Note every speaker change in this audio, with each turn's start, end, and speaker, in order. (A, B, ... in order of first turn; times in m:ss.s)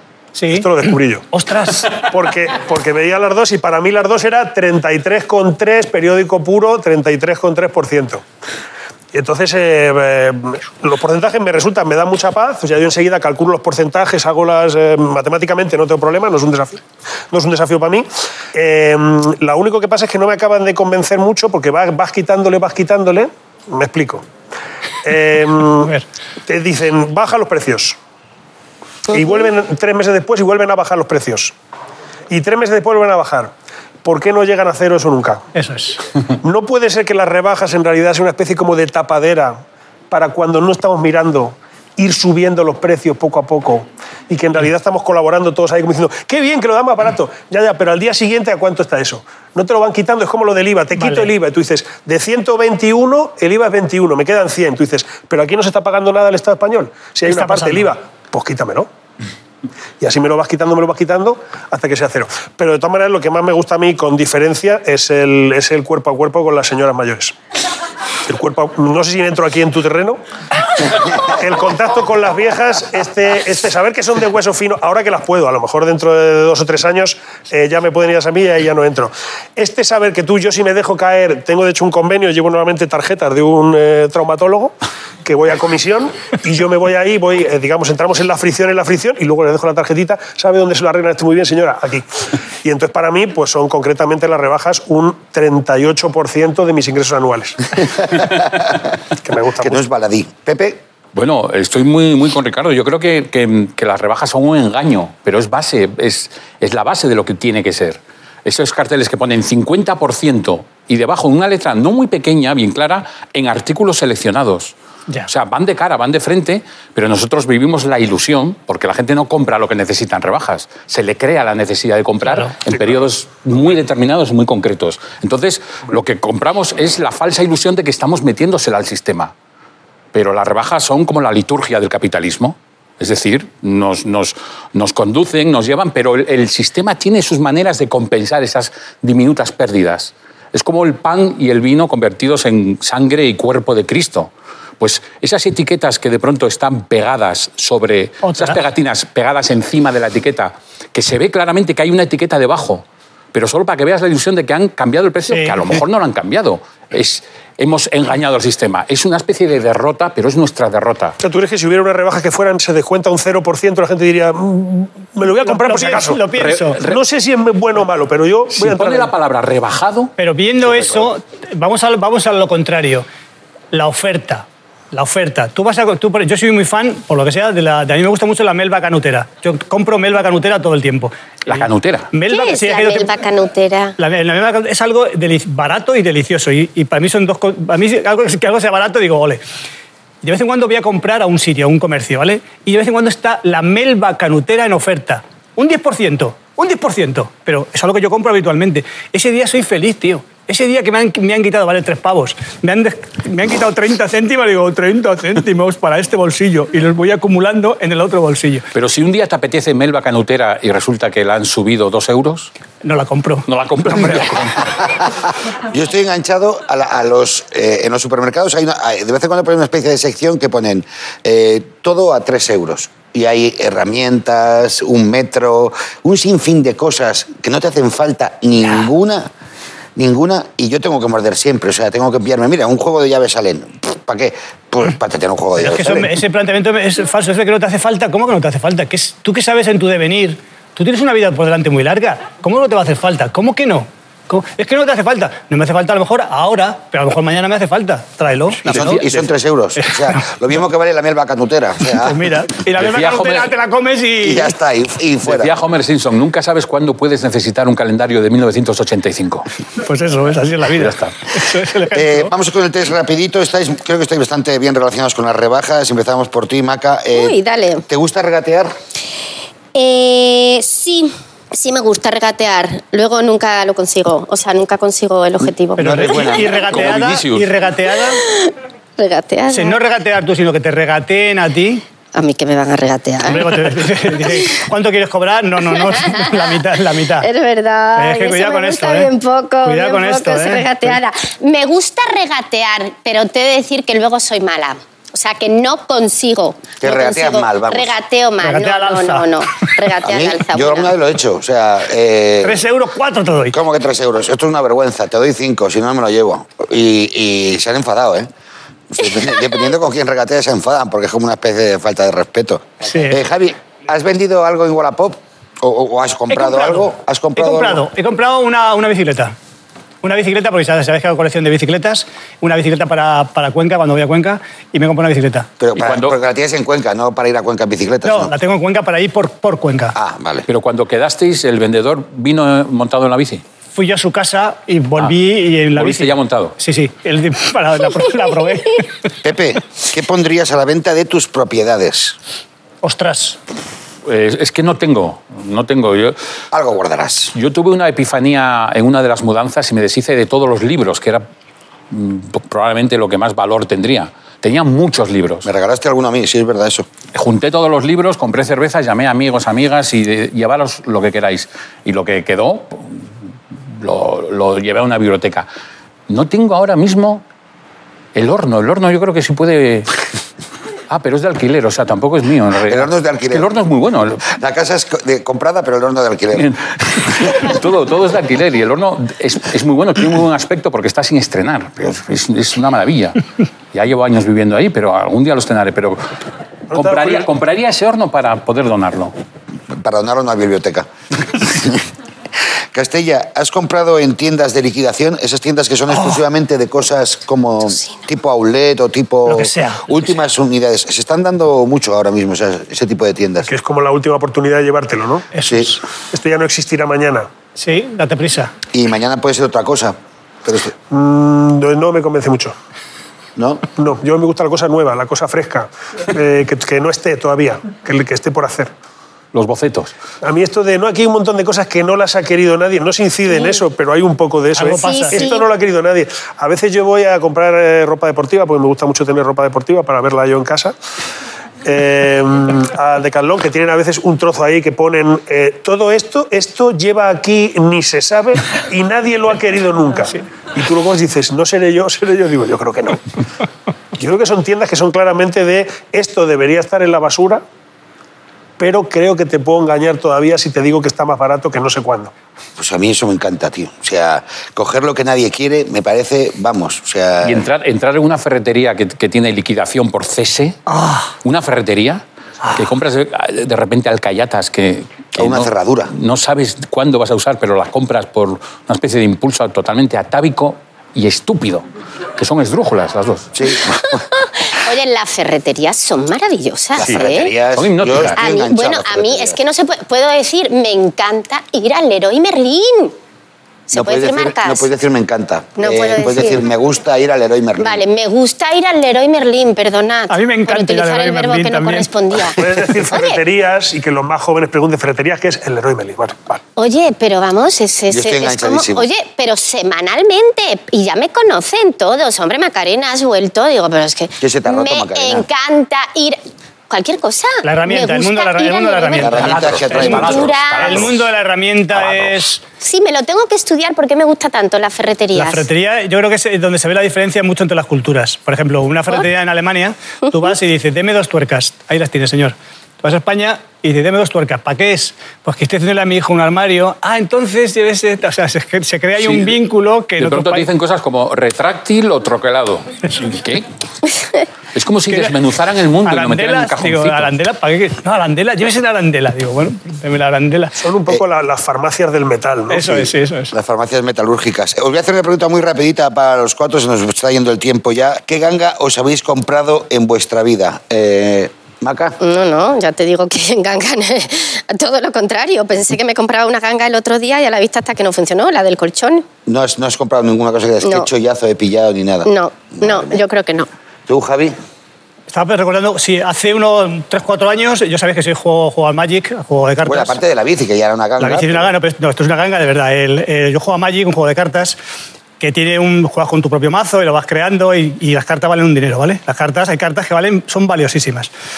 0:00.4-0:00.7 A
0:00.5-0:01.2 B
0:01.3-0:02.0 A
0:01.9-0:08.2 B
0:09.1-0:24.3 B
0:25.0-0:25.9 B
0:26.5-0:28.0 B
0:29.1-0:31.6 B
0:32.3-0:33.5 B
0:34.0-0:35.4 B
0:35.6-0:36.0 A
0:36.4-0:58.9 B
0:51.0-0:51.3 A
0:57.2-0:58.0 A
1:00.0-1:07.3 B
1:08.3-1:10.2 B
1:10.9-1:24.7 B
1:25.2-1:32.1 B
1:32.6-1:37.6 B
1:39.2-1:39.8 B
1:39.6-1:40.8 C
1:41.2-1:54.7 D
1:55.3-2:09.3 D
2:02.2-2:02.5 A
2:10.1-2:41.2 D
2:28.2-2:28.6 A
2:35.3-2:35.8 A
2:41.2-2:46.3 B
2:45.4-2:46.8 A
2:46.4-2:47.0 D
2:46.8-2:49.1 B
2:48.6-2:50.1 D
2:50.2-2:53.1 A
2:53.7-3:03.1 A
3:01.5-3:02.1 D
3:02.3-3:04.0 E
3:04.0-3:09.4 A
3:10.2-3:28.7 A
3:28.7-3:32.5 D
3:32.8-3:34.3 A
3:33.5-3:34.8 D
3:35.7-3:49.3 C
3:50.0-3:56.2 C
3:55.6-4:09.0 A
4:08.7-4:12.3 C
4:08.7-4:09.3 D
4:09.8-4:10.2 A
4:12.0-4:14.5 A
4:12.8-4:13.5 D
4:14.2-4:15.6 C
4:15.2-4:19.5 D
4:19.8-4:22.3 A
4:20.8-4:21.1 D
4:21.9-4:27.4 C
4:27.1-4:27.8 E
4:27.9-4:28.7 C
4:29.7-4:36.4 E
4:35.8-4:36.7 C
4:35.8-4:38.2 A
4:36.1-4:37.5 D
4:38.3-4:39.8 E
4:39.5-4:41.8 A
4:42.1-4:43.8 E
4:43.2-4:47.3 A
4:45.7-4:46.6 E
4:47.2-5:00.9 E
4:48.0-4:49.1 A
4:49.6-4:50.9 A
4:56.8-4:57.9 C
4:58.4-4:59.3 A
5:00.0-5:02.6 C
5:02.4-5:03.6 A
5:03.5-5:08.3 C
5:08.9-5:17.8 C
5:12.8-5:13.2 A
5:16.3-5:19.3 A
5:20.0-5:25.5 A
5:25.6-5:28.3 C
5:25.8-5:26.2 D
5:28.0-5:30.0 A
5:30.0-5:30.5 C
5:30.5-5:33.4 D
5:33.8-5:38.9 A
5:35.7-5:36.6 D
5:39.2-5:42.2 C
5:42.8-5:43.4 A
5:44.0-5:46.2 D
5:46.5-5:47.3 C
5:47.4-5:51.2 D
5:51.9-5:55.5 D
5:55.4-5:56.9 C
5:57.1-6:03.1 D
6:03.7-6:05.5 D
6:06.1-6:07.2 D
6:08.2-6:09.9 D
6:10.9-6:14.3 D
6:12.7-6:13.5 C
6:14.3-6:16.5 C
6:16.3-6:23.2 D
6:23.7-6:26.0 D
6:26.7-6:27.3 B
6:26.7-6:29.1 D
6:29.7-6:31.8 C
6:32.7-6:43.5 C
6:35.9-6:36.2 A
6:39.3-6:39.9 A
6:43.5-6:45.3 B
6:45.3-6:45.8 A
6:45.5-6:45.7 C
6:46.1-6:47.3 B
6:47.6-6:48.5 A
6:48.7-6:50.7 C
6:50.9-6:52.6 B
6:53.4-6:53.6 C
6:53.8-6:58.7 B
6:59.3-7:00.0 D
7:00.2-7:10.7 B
7:04.5-7:05.3 A
7:04.7-7:05.5 E
7:11.6-7:23.0 B
7:24.0-7:27.4 B
7:28.6-7:32.1 B
7:32.6-7:37.5 C
7:37.2-7:40.6 D
7:40.7-7:41.1 A
7:41.2-7:51.7 D
7:45.2-7:45.9 C
7:52.2-7:53.3 D
7:53.3-7:54.0 C
7:53.8-7:57.3 E
7:56.8-7:59.4 C
7:56.8-7:58.2 D
7:58.2-8:03.0 E
8:03.7-8:04.7 E
8:03.7-8:07.8 C
8:05.6-8:06.4 E
8:07.6-8:13.2 E
8:10.1-8:11.9 A
8:12.4-8:16.4 B
8:16.6-8:30.9 E
8:17.9-8:18.9 C
8:24.2-8:25.3 C
8:27.4-8:32.4 A
8:29.0-8:30.3 C
8:29.2-8:31.1 D
8:31.8-8:32.2 D
8:32.6-8:35.5 E
8:35.2-8:50.5 A
8:49.0-8:49.4 D
8:50.0-8:53.5 D
8:54.6-8:57.1 D
8:54.9-8:55.2 A
8:55.8-9:00.6 A
9:00.6-9:02.8 B
9:02.5-9:03.3 A
9:03.3-9:12.0 C
9:12.0-9:19.1 E
9:19.3-9:23.0 C
9:22.1-9:23.5 E
9:23.9-9:24.4 C
9:25.1-9:30.0 A
9:29.6-9:31.5 C
9:31.0-9:34.6 A
9:35.2-9:41.1 A